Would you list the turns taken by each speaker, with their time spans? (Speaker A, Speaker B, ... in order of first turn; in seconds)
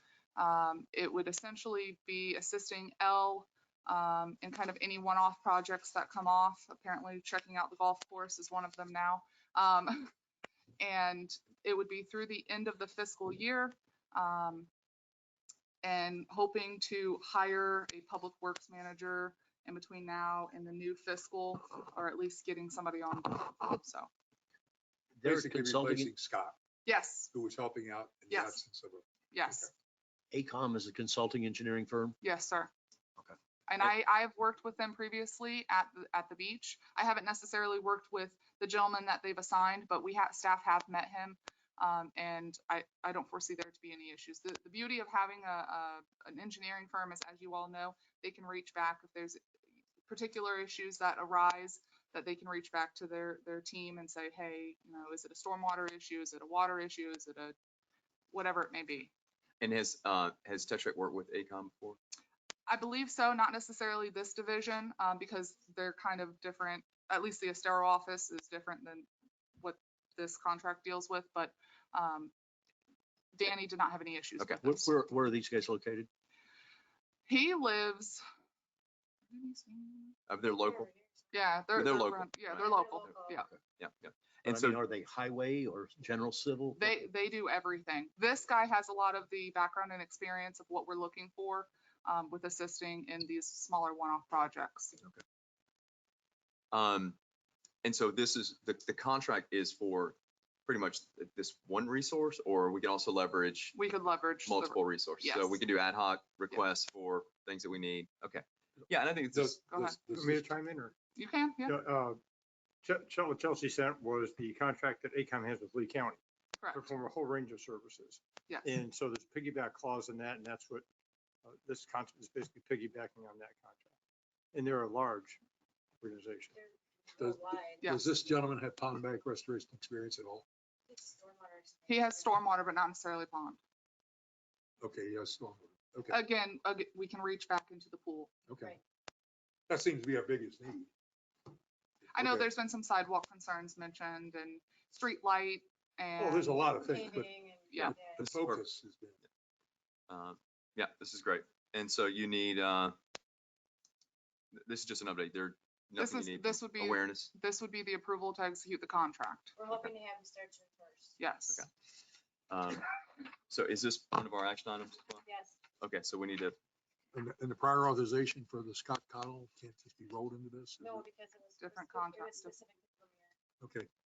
Speaker A: 0.4-10.1, 10.8-14.7, 15.8-24.1, 26.9-27.3, 28.3-28.6, 29.3-29.7, 32.2-32.7, 33.7-49.4, 50.1-57.5, 58.3-59.1, 62.7-69.1, 69.6-72.3, 73.3-74.9, 77.3-78.2, 79.3-80.2, 81.3-83.5, 86.7-95.0, 103.7-105.6, 109.7-110.0, 111.2-111.8, 116.6-116.9, 131.9-133.6, 136.1-138.3, 142.1-146.6, 156.0-159.5, 161.2-161.6, 171.6-172.5
Speaker B: 25.1-26.1, 30.3-32.1, 74.6-76.1, 84.4-87.0
Speaker C: 25.2-26.6, 27.3-29.7, 109.3-110.5, 127.2-130.4, 134.8-136.2, 138.5-138.7, 139.7-140.9, 142.2-142.5, 146.2-149.2, 167.1-171.0, 173.6-173.9
Speaker D: 59.6-62.0, 80.3-80.9, 81.7-84.8, 96.7-97.2, 97.8-103.8, 104.4-109.7, 148.2-148.6, 150.1-152.9, 154.6-157.3, 162.5-162.9, 163.5-165.2, 165.8-166.6
Speaker E: 80.6-81.0, 82.5-83.3, 126.5-127.8, 130.9-132.3, 146.5-148.2, 159.6-161.2, 165.2-165.6, 170.8-173.3
Speaker F: 110.1-110.9, 111.7-112.2, 112.8-116.2, 116.7-120.8, 121.5-123.9, 124.5-125.4, 126.0-126.5